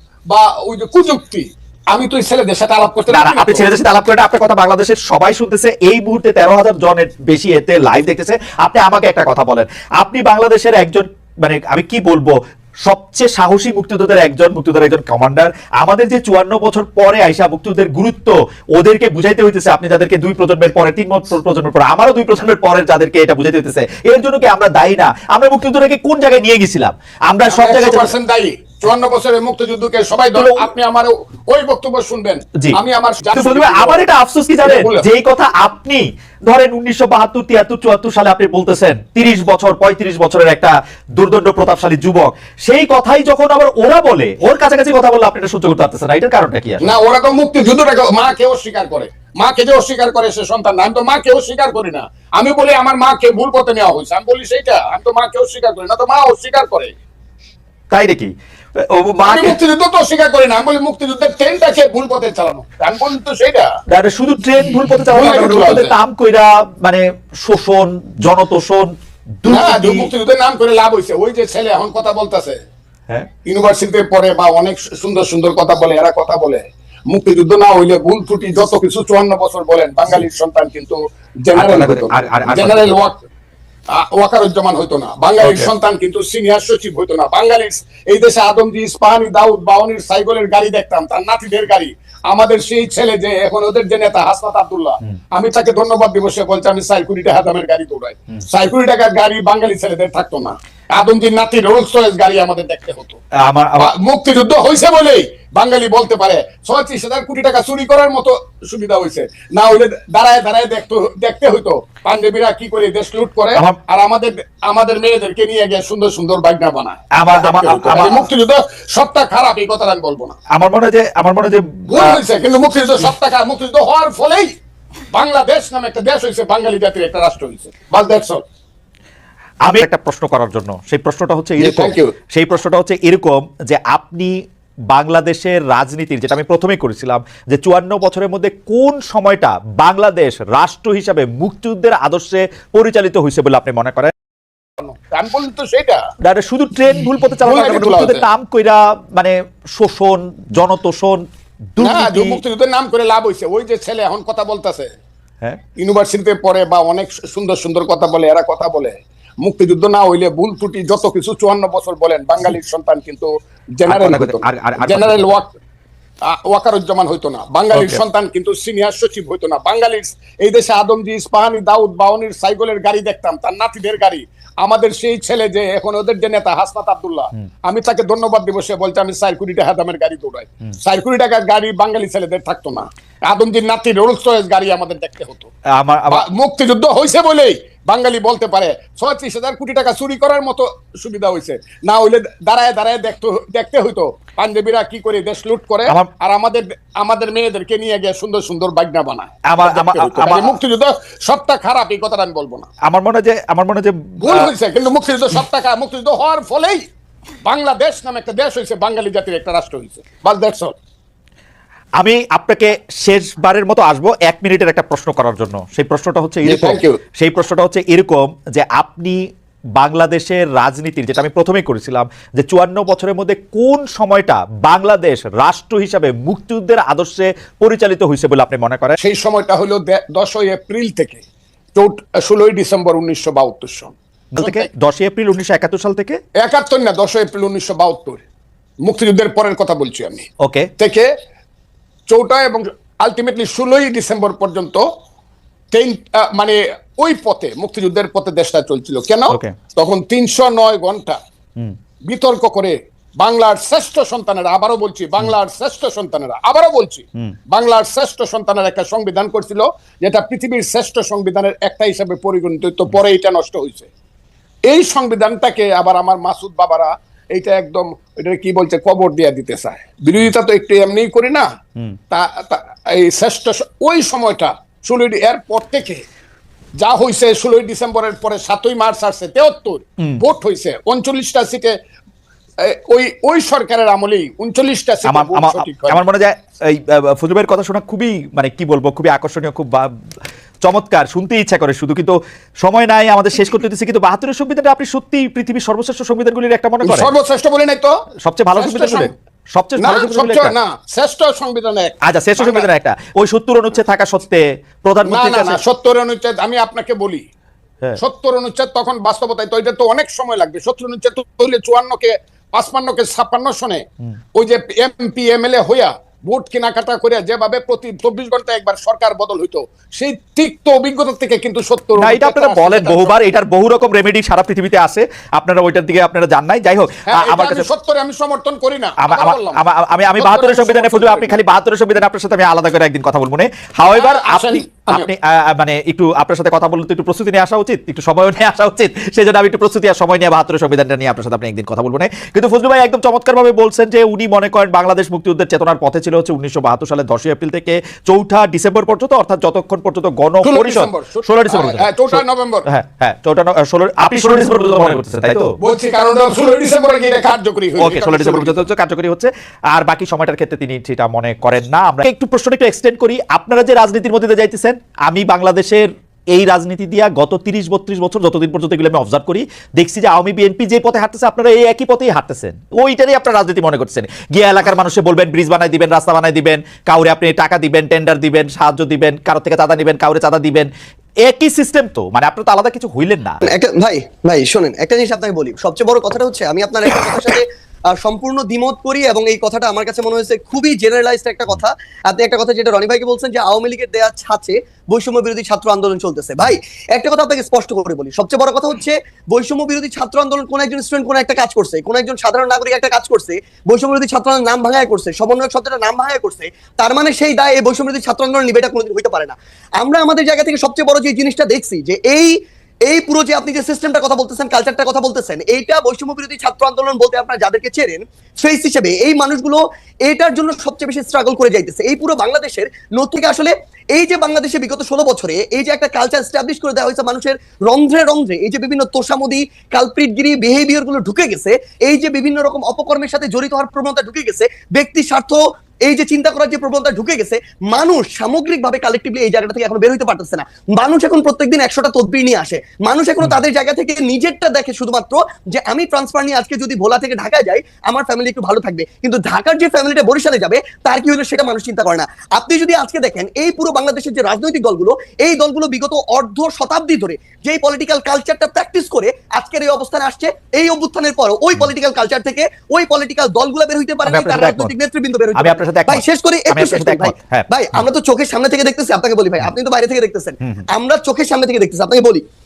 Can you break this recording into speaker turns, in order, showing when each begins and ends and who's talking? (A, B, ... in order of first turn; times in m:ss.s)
0:00.3-0:03.7 A
0:03.1-0:28.1 B
0:27.5-0:34.0 A
0:30.3-0:30.7 B
0:33.3-0:46.9 B
0:34.6-0:35.1 A
0:46.8-0:56.9 A
0:57.9-0:59.5 B
0:59.2-1:03.7 A
1:03.9-1:10.1 B
1:05.1-1:05.9 A
1:09.5-1:12.6 A
1:13.4-1:23.2 A
1:21.5-1:22.9 B
1:23.9-1:43.2 A
1:25.4-1:25.7 B
1:43.4-1:43.9 B
1:43.8-2:00.4 A
1:57.1-1:58.3 B
2:00.5-2:02.2 B
2:01.9-2:04.5 A
2:05.1-2:08.4 A
2:09.6-2:14.4 B
2:11.6-2:12.1 A
2:14.9-2:24.1 B
2:24.8-2:26.0 A
2:26.2-2:32.4 B
2:27.4-2:28.2 A
2:31.8-2:34.9 A
2:35.8-2:45.5 A
2:43.9-2:45.3 B
2:46.2-3:05.5 A
2:47.7-2:48.0 B
3:05.8-3:06.2 B
3:06.1-3:22.7 A
3:19.5-3:20.5 B
3:22.8-3:24.5 B
3:24.2-3:26.8 A
3:27.4-3:30.7 A
3:32.0-3:39.2 B
3:36.4-3:37.0 A
3:39.8-3:49.0 B
3:49.0-3:51.2 A
3:51.7-3:54.6 A
3:54.3-3:56.2 B
3:56.4-3:58.2 A
3:58.8-4:00.3 A
4:00.4-4:00.7 B
4:00.8-4:01.1 A
4:02.1-4:04.9 A
4:05.7-4:11.2 A
4:09.3-4:09.6 B
4:12.0-4:23.9 A
4:24.6-4:31.5 A
4:32.1-4:36.0 A
4:36.8-4:41.7 A
4:42.6-4:46.0 A
4:45.0-4:49.9 B
4:50.6-4:57.1 B
4:56.8-4:58.0 A
4:58.2-5:00.5 B
4:58.6-4:59.1 A
4:59.8-5:02.7 A
5:02.0-5:05.6 B
5:05.0-5:07.2 A
5:08.0-5:13.8 A
5:14.4-5:23.1 A
5:22.0-5:27.6 B
5:27.1-5:29.6 A
5:29.0-5:55.5 B
5:30.2-5:31.4 A
5:33.9-5:35.1 A
5:50.4-5:52.6 A
5:55.6-5:58.5 A
5:57.8-6:20.7 B
6:21.2-6:23.4 B
6:23.4-6:52.3 C
6:52.8-7:52.2 C
7:44.0-7:44.7 B
7:45.3-7:47.8 B
7:50.4-7:50.6 B